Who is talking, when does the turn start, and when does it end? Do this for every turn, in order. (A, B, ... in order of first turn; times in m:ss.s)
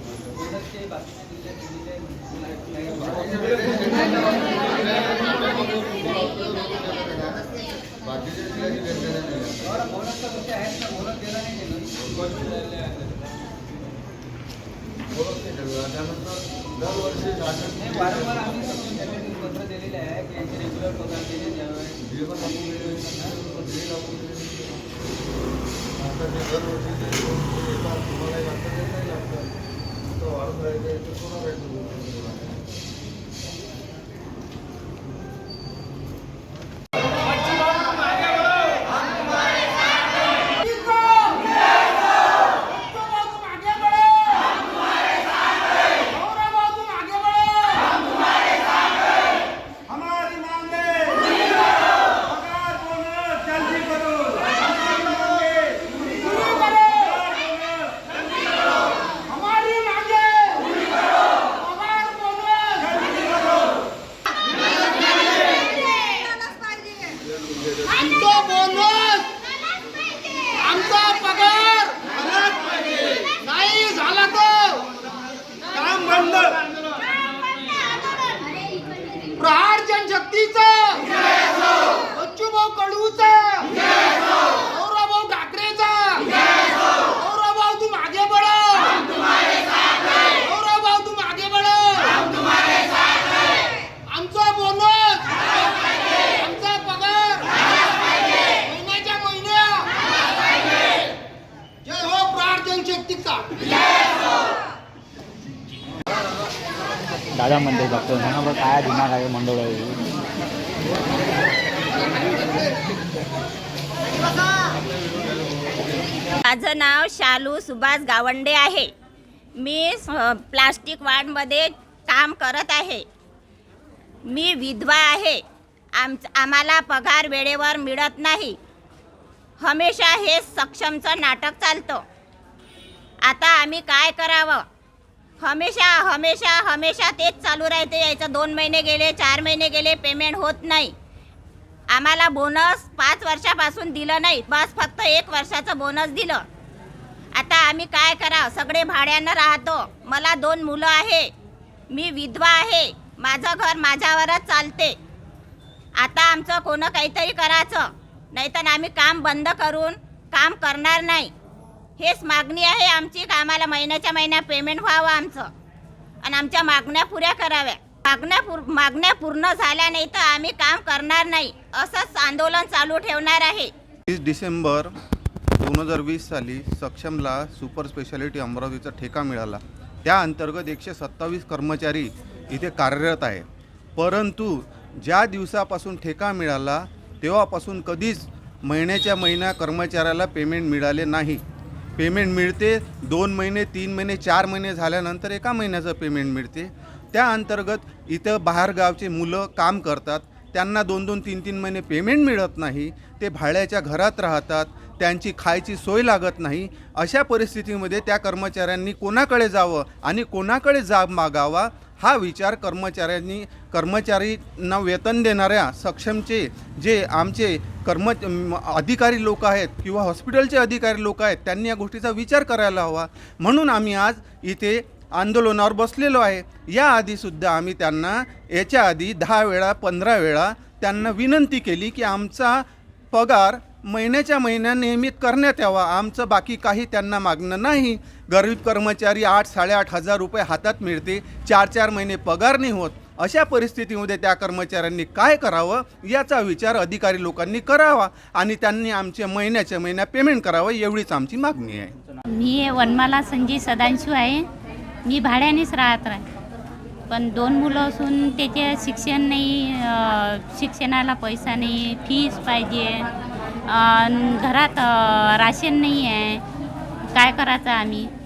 0:00.8-0:02.2 A
0:03.0-0:10.0 B
0:10.4-0:11.6 A
0:12.0-0:12.4 B
0:15.2-0:18.8 B
0:18.8-0:21.4 A
0:21.9-0:24.6 B
0:26.1-0:29.4 B
0:30.2-0:32.4 B
0:40.5-0:41.5 C
0:42.7-0:44.5 C
0:46.1-0:47.9 C
0:49.9-0:51.5 D
0:52.1-0:55.9 D
0:56.3-0:56.8 C
0:59.5-1:00.8 C
1:01.6-1:03.0 C
1:07.9-1:09.3 C
1:10.6-1:14.8 C
1:15.7-1:16.6 C
1:19.4-1:32.7 C
1:34.1-1:37.6 C
1:38.4-1:39.9 C
1:41.8-1:43.6 C
1:47.3-1:50.0 E
1:56.4-1:58.9 F
1:59.6-2:03.0 F
2:04.3-2:05.4 F
2:06.0-2:08.6 F
2:09.6-2:12.0 F
2:13.2-2:14.6 F
2:15.4-2:20.9 F
2:21.9-2:26.4 F
2:27.4-2:31.3 F
2:31.9-2:35.0 F
2:36.0-2:41.3 F
2:42.0-2:45.5 F
2:46.2-2:53.7 F
2:54.1-2:54.9 D
2:55.6-3:03.4 D
3:04.0-3:11.4 D
3:12.0-4:11.9 D
4:12.3-4:14.4 G
4:15.0-4:16.2 G
4:17.1-4:23.1 G
4:23.7-4:26.4 G
4:27.1-4:28.1 G